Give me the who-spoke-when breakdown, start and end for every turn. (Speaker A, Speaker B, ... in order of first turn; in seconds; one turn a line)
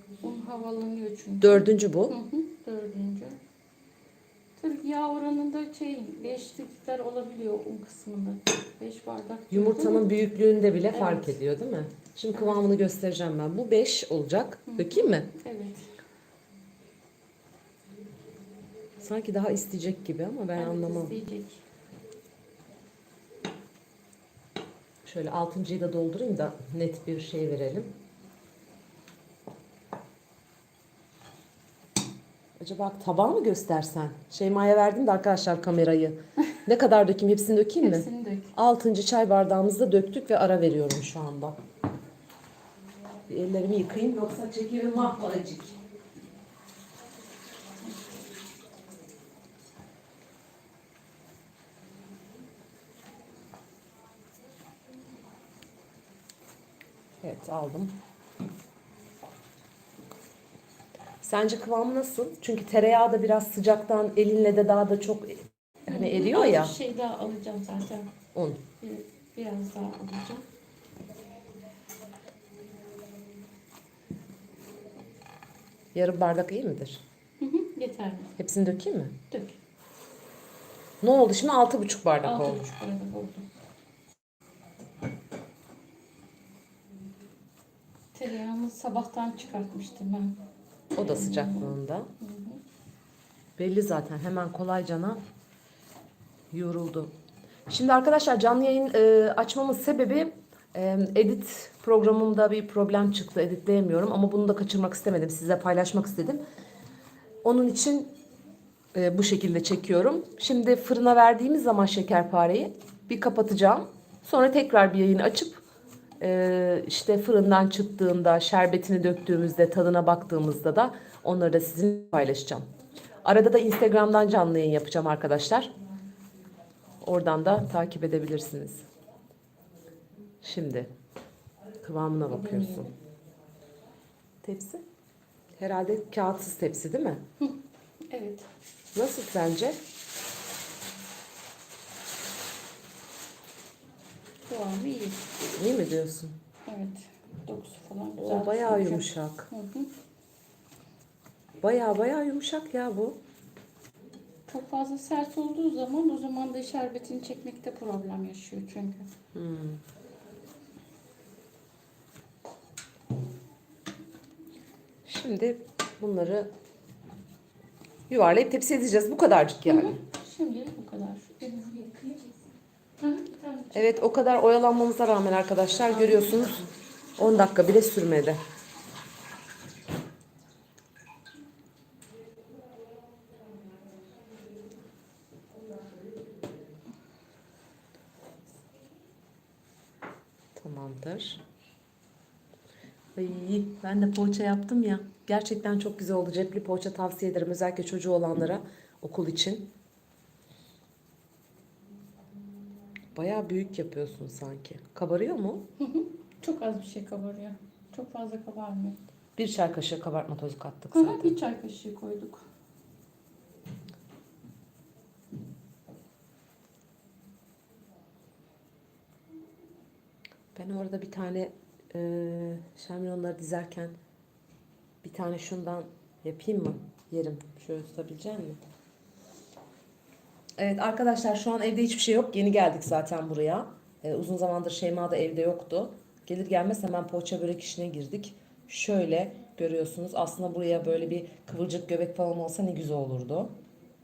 Speaker A: 0.2-3.4
Speaker B: 1.4-2.2
Speaker A: 4.6-10.1
Speaker B: 9.5-15.3
Speaker A: 10.9-11.4
Speaker A: 12.3-12.8
Speaker A: 14.7-15.9
Speaker B: 19.0-21.2
Speaker A: 20.6-21.6
Speaker B: 25.1-28.0
Speaker B: 32.6-41.6
Speaker A: 37.8-38.5
Speaker B: 43.3-45.8
Speaker B: 57.2-58.0
Speaker B: 61.2-66.8
Speaker A: 65.9-68.1
Speaker B: 68.3-68.6
Speaker A: 68.8-70.5
Speaker B: 75.9-77.0
Speaker A: 77.4-78.3
Speaker B: 78.4-79.2
Speaker A: 79.3-79.6
Speaker B: 81.0-82.7
Speaker A: 82.2-83.5
Speaker A: 88.1-90.4
Speaker B: 91.0-92.1
Speaker A: 91.0-92.6
Speaker B: 93.6-95.2
Speaker B: 96.5-97.1
Speaker B: 97.7-106.4
Speaker B: 107.4-108.2
Speaker B: 108.9-115.6
Speaker B: 116.2-122.7
Speaker B: 123.2-125.7
Speaker B: 127.0-128.8
Speaker B: 130.4-130.9
Speaker B: 131.8-132.9
Speaker A: 132.3-132.9
Speaker B: 134.4-134.8
Speaker B: 135.6-137.2
Speaker A: 138.1-138.5
Speaker B: 138.9-139.8
Speaker A: 144.5-145.3
Speaker B: 145.6-146.4
Speaker A: 146.7-149.9
Speaker B: 148.2-149.5
Speaker B: 151.6-153.2
Speaker A: 154.5-159.1
Speaker B: 159.3-159.8
Speaker B: 165.1-166.5
Speaker B: 168.1-170.0
Speaker A: 169.7-172.3
Speaker A: 173.0-174.0
Speaker B: 173.7-178.4
Speaker A: 175.9-176.5
Speaker B: 190.6-191.4
Speaker B: 193.2-199.7
Speaker B: 203.2-205.7
Speaker A: 205.8-209.0
Speaker B: 209.4-211.4
Speaker A: 210.9-212.4
Speaker B: 220.6-224.0
Speaker B: 225.0-228.6
Speaker B: 230.6-243.6